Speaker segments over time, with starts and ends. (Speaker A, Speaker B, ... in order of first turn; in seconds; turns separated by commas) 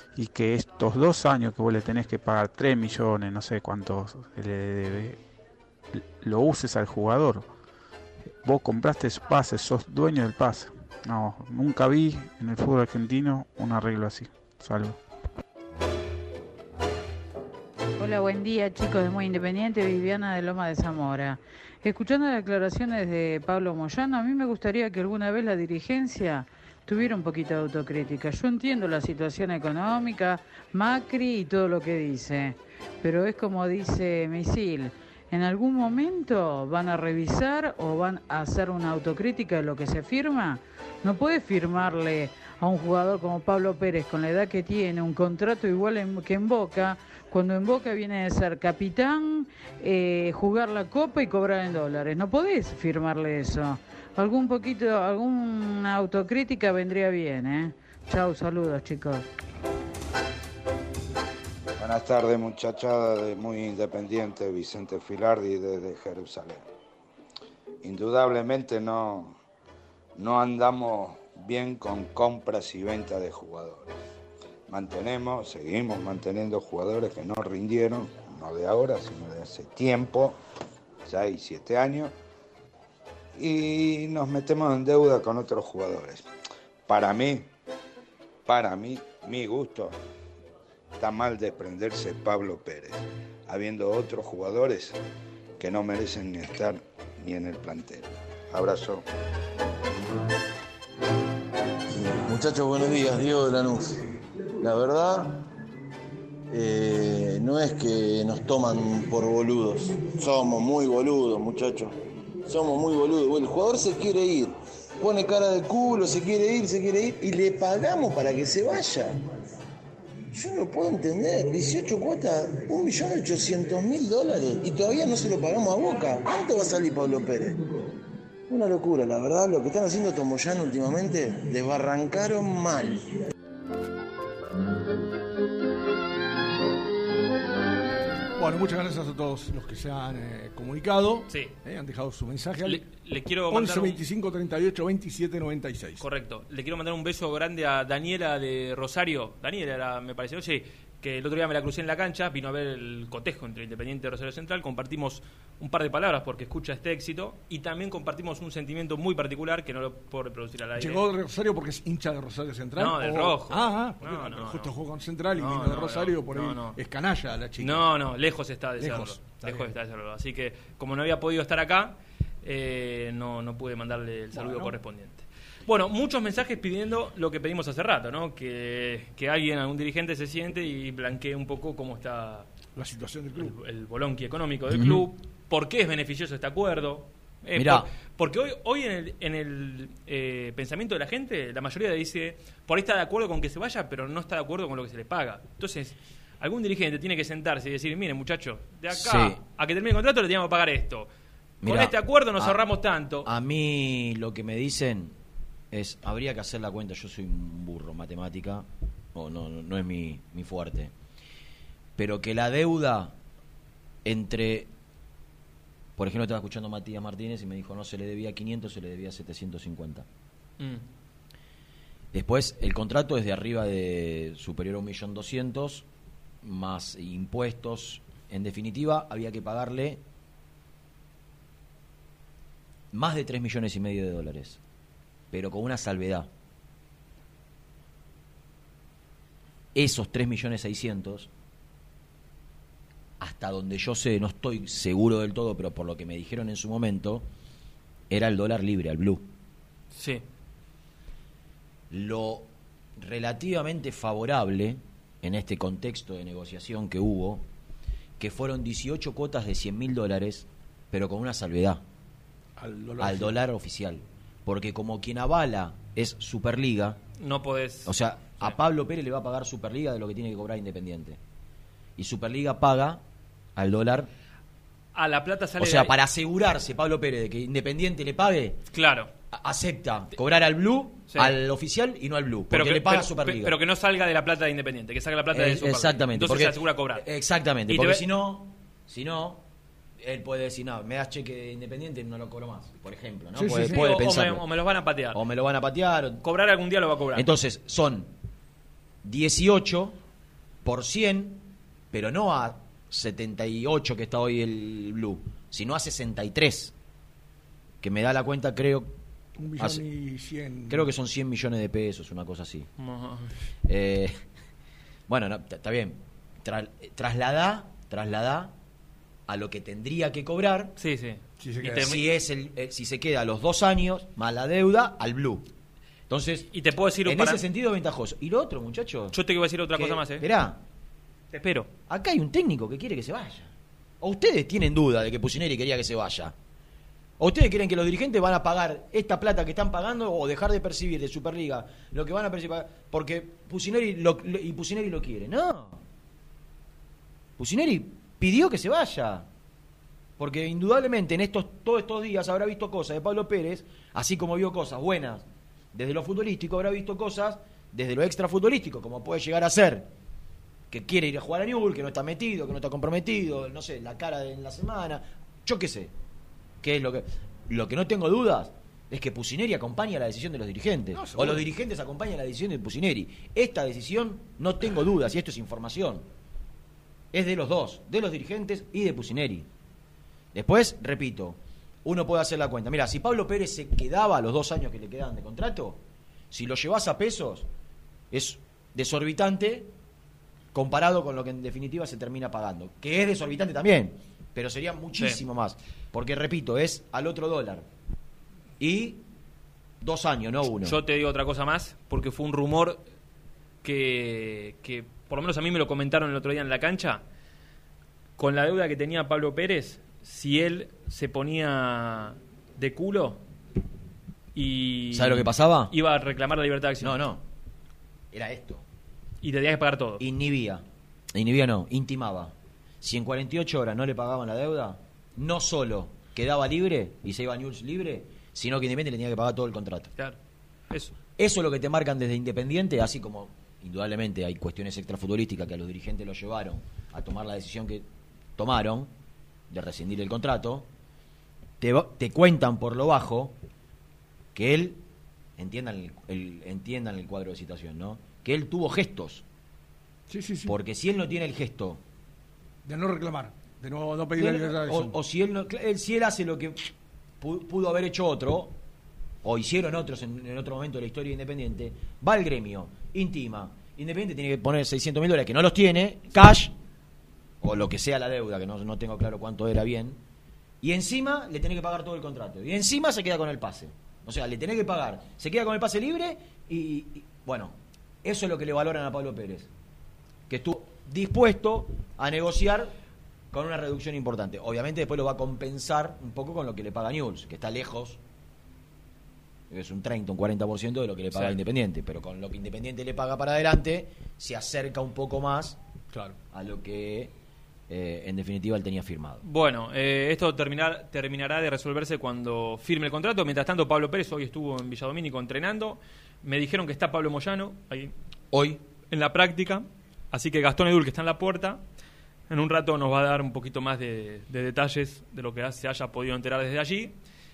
Speaker A: 0.1-5.2, Speaker A: 5.9-7.5, Speaker A: 8.4-15.0, Speaker B: 18.0-59.2, Speaker C: 61.8-66.6, Speaker C: 67.8-69.3, Speaker C: 70.2-73.9, Speaker C: 74.7-80.4, Speaker C: 81.0-82.1, Speaker C: 83.4-86.3, Speaker C: 86.9-87.5, Speaker C: 88.5-90.0, Speaker C: 91.0-95.0, Speaker C: 95.6-99.0, Speaker D: 102.0-104.0, Speaker D: 104.6-105.3, Speaker D: 106.5-111.9, Speaker D: 112.5-119.2, Speaker D: 120.3-127.6, Speaker D: 128.5-133.1, Speaker E: 138.3-142.9, Speaker F: 142.6-144.0, Speaker E: 143.5-146.0, Speaker F: 146.0-161.0, Speaker E: 160.8-167.9, Speaker F: 162.8-164.7, Speaker F: 165.3-166.8, Speaker F: 167.6-182.5, Speaker E: 168.8-169.7, Speaker E: 174.3-174.7, Speaker E: 182.8-183.6, Speaker F: 183.4-201.1, Speaker G: 184.7-185.1, Speaker G: 187.6-187.9, Speaker G: 198.9-199.4, Speaker G: 201.6-202.6, Speaker F: 201.6-203.3, Speaker G: 203.2-205.2, Speaker G: 205.7-210.9, Speaker G: 212.0-213.1, Speaker G: 214.0-214.7, Speaker G: 215.9-220.1, Speaker F: 220.6-220.8, Speaker G: 222.1-225.8, Speaker G: 226.4-230.0, Speaker G: 232.9-234.6, Speaker G: 235.3-236.3, Speaker G: 239.7-241.3, Speaker G: 243.2-247.3, Speaker G: 248.1-249.2, Speaker F: 249.9-250.2, Speaker G: 251.9-257.4, Speaker G: 258.2-261.8, Speaker E: 262.6-263.3, Speaker G: 263.0-267.0, Speaker F: 267.2-268.6, Speaker G: 267.8-271.2, Speaker G: 272.0-273.0, Speaker G: 273.6-274.1, Speaker F: 274.9-275.9, Speaker G: 275.6-278.6, Speaker F: 278.7-279.1, Speaker G: 279.3-283.6, Speaker F: 281.1-281.3, Speaker F: 282.5-287.0, Speaker G: 285.3-289.4, Speaker F: 287.7-288.0, Speaker G: 290.0-294.4, Speaker E: 293.4-293.9, Speaker F: 293.4-295.2, Speaker G: 295.1-296.2, Speaker F: 296.2-297.3, Speaker G: 297.1-298.1, Speaker G: 299.0-300.0, Speaker G: 300.6-306.7, Speaker G: 307.8-308.9, Speaker E: 309.4-310.9, Speaker G: 309.6-309.8, Speaker G: 310.7-312.7, Speaker F: 312.8-313.3, Speaker G: 313.6-314.2, Speaker G: 315.1-318.5, Speaker G: 319.3-320.7, Speaker F: 320.8-322.0, Speaker E: 321.4-321.9, Speaker G: 321.8-325.5, Speaker G: 326.1-326.5, Speaker F: 326.5-327.4, Speaker G: 327.0-329.2, Speaker F: 329.1-330.2, Speaker G: 329.7-330.6, Speaker F: 331.3-331.7, Speaker G: 331.9-336.3, Speaker G: 337.2-345.8, Speaker G: 347.4-349.3, Speaker G: 350.2-359.9, Speaker G: 360.7-365.9, Speaker G: 366.6-376.1, Speaker E: 370.9-371.4, Speaker G: 377.1-379.5, Speaker G: 380.3-387.5, Speaker G: 388.1-389.7, Speaker G: 390.5-397.6, Speaker G: 398.6-399.0, Speaker G: 399.8-400.8, Speaker F: 400.6-402.8, Speaker F: 403.6-407.0, Speaker F: 408.2-413.2, Speaker F: 414.3-417.0, Speaker G: 414.9-415.7, Speaker G: 416.8-417.2, Speaker G: 418.1-418.6, Speaker F: 419.2-420.0, Speaker G: 420.0-429.9, Speaker G: 431.2-438.9, Speaker G: 439.5-440.7, Speaker G: 441.6-443.3, Speaker G: 444.3-444.8, Speaker G: 445.4-449.2, Speaker E: 450.1-450.5, Speaker G: 450.4-451.8, Speaker E: 452.6-455.0, Speaker G: 454.2-458.6, Speaker G: 459.2-466.5, Speaker G: 467.4-470.0, Speaker G: 470.6-479.5, Speaker G: 480.3-482.7, Speaker G: 483.3-488.0, Speaker G: 489.5-495.6, Speaker F: 491.1-491.4, Speaker G: 496.3-497.1, Speaker G: 497.7-499.2, Speaker F: 499.2-507.9, Speaker G: 508.3-508.6, Speaker F: 508.9-511.6, Speaker F: 512.3-517.0